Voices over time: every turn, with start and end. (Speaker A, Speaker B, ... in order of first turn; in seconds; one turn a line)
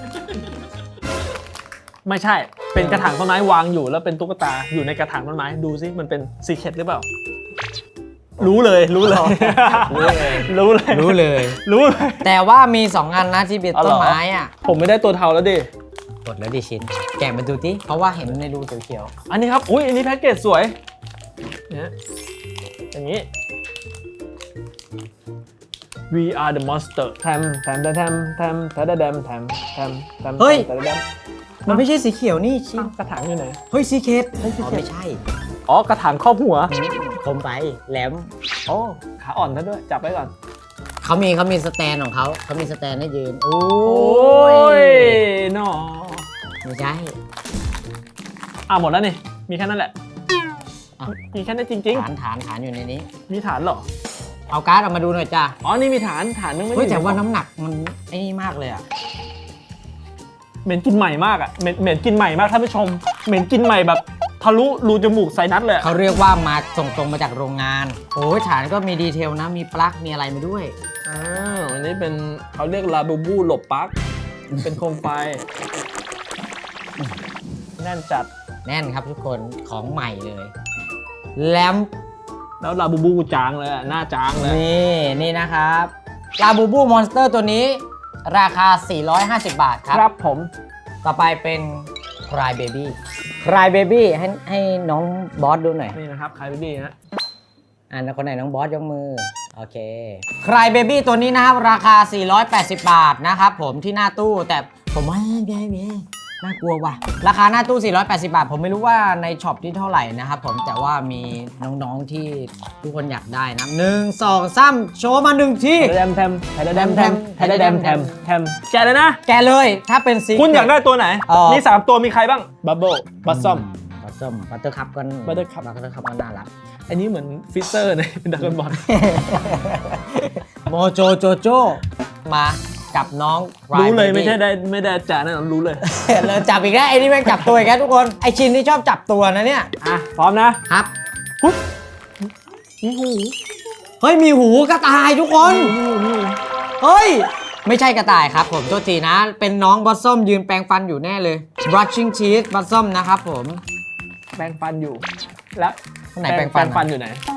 Speaker A: 2.0-7.0
Speaker B: 2.8-3.1
Speaker A: 8.4-12.3
Speaker B: 9.0-11.6
Speaker B: 12.2-14.5
Speaker A: 13.7-15.7
Speaker B: 16.2-19.1
Speaker A: 19.3-20.7
Speaker A: 22.9-23.3
Speaker A: 26.1-31.0
Speaker B: 30.4-30.7
Speaker B: 31.6-32.9
Speaker A: 32.8-33.6
Speaker B: 33.7-35.2
Speaker A: 34.4-34.9
Speaker A: 35.7-36.7
Speaker B: 36.7-38.3
Speaker A: 38.7-40.3
Speaker B: 41.0-45.2
Speaker A: 43.8-46.3
Speaker B: 46.6-47.1
Speaker A: 48.7-49.9
Speaker A: 51.1-52.1
Speaker B: 51.9-53.1
Speaker A: 53.3-53.9
Speaker B: 54.5-55.5
Speaker A: 55.6-57.2
Speaker B: 56.7-58.8
Speaker A: 60.6-65.9
Speaker B: 65.8-70.7
Speaker A: 71.0-73.9
Speaker A: 74.6-75.5
Speaker A: 77.8-78.3
Speaker B: 78.6-80.5
Speaker B: 81.3-81.9
Speaker A: 82.6-84.6
Speaker B: 84.4-90.0
Speaker A: 89.9-90.5
Speaker B: 91.0-96.0
Speaker A: 95.9-96.9
Speaker B: 97.9-116.0
Speaker A: 115.8-119.2
Speaker B: 116.7-118.1
Speaker B: 119.2-121.6
Speaker A: 120.3-123.7
Speaker B: 123.2-126.5
Speaker A: 125.2-125.6
Speaker A: 126.9-128.9
Speaker B: 128.4-134.4
Speaker A: 133.7-136.0
Speaker B: 135.8-139.7
Speaker A: 139.8-140.6
Speaker B: 140.7-140.9
Speaker A: 142.8-143.3
Speaker B: 144.0-145.8
Speaker A: 145.4-146.4
Speaker B: 146.8-153.6
Speaker A: 154.4-157.2
Speaker B: 156.1-156.9